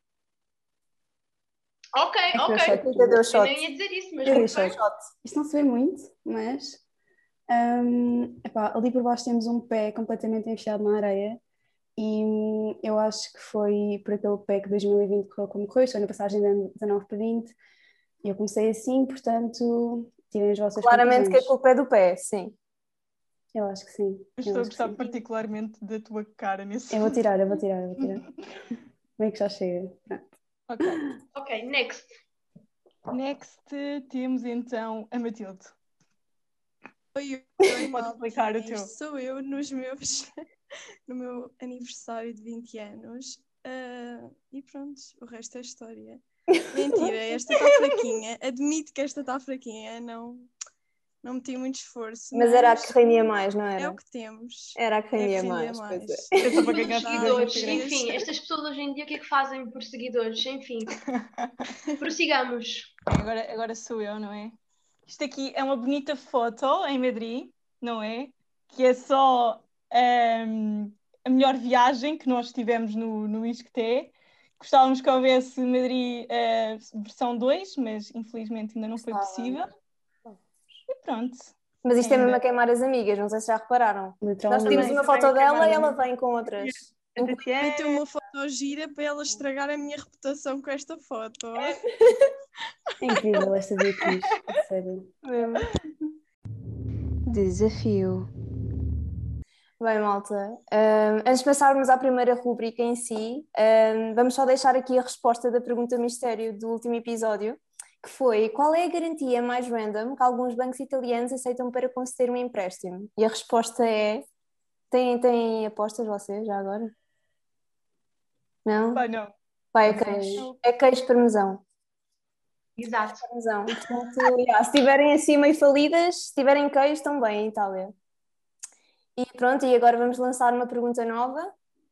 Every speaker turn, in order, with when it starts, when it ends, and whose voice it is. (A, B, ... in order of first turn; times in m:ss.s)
0:01.9-0:04.8 A
0:02.3-0:03.2 B
0:02.7-0:03.6 C
0:04.2-0:05.0 C
0:05.2-0:06.8 B
0:07.5-0:11.4 B
0:12.0-0:17.6 B
0:18.2-0:21.5 B
0:20.8-0:22.5 C
0:23.5-0:25.0 B
0:24.4-0:27.2 D
0:26.9-0:28.2 B
0:29.2-0:30.3 B
0:30.7-0:31.0 D
0:31.3-0:32.1 A
0:33.1-0:35.7 D
0:37.1-0:40.3 E
0:37.9-0:38.9 D
0:41.1-0:50.5 E
0:46.6-0:47.1 C
0:47.5-0:48.1 D
0:51.2-0:58.2 E
0:52.3-0:54.0 C
0:54.8-0:56.6 C
0:56.4-0:57.9 D
0:56.9-1:00.9 A
1:01.2-1:01.4 D
1:02.0-1:02.9 A
1:03.1-1:04.6 D
1:05.1-1:19.7 D
1:19.1-1:19.6 C
1:20.9-1:22.4 D
1:21.8-1:27.5 C
1:24.2-1:25.9 B
1:24.6-1:26.0 A
1:27.2-1:28.0 D
1:27.6-1:31.8 E
1:33.0-1:35.1 B
1:35.2-1:35.7 C
1:37.2-1:38.3 C
1:39.8-1:54.2 C
1:54.9-1:56.9 C
1:58.6-1:59.0 C
1:58.9-1:59.3 D
1:59.7-2:01.6 C
1:59.8-2:00.4 B
2:02.8-2:03.3 A
2:03.2-2:07.9 C
2:09.2-2:11.5 C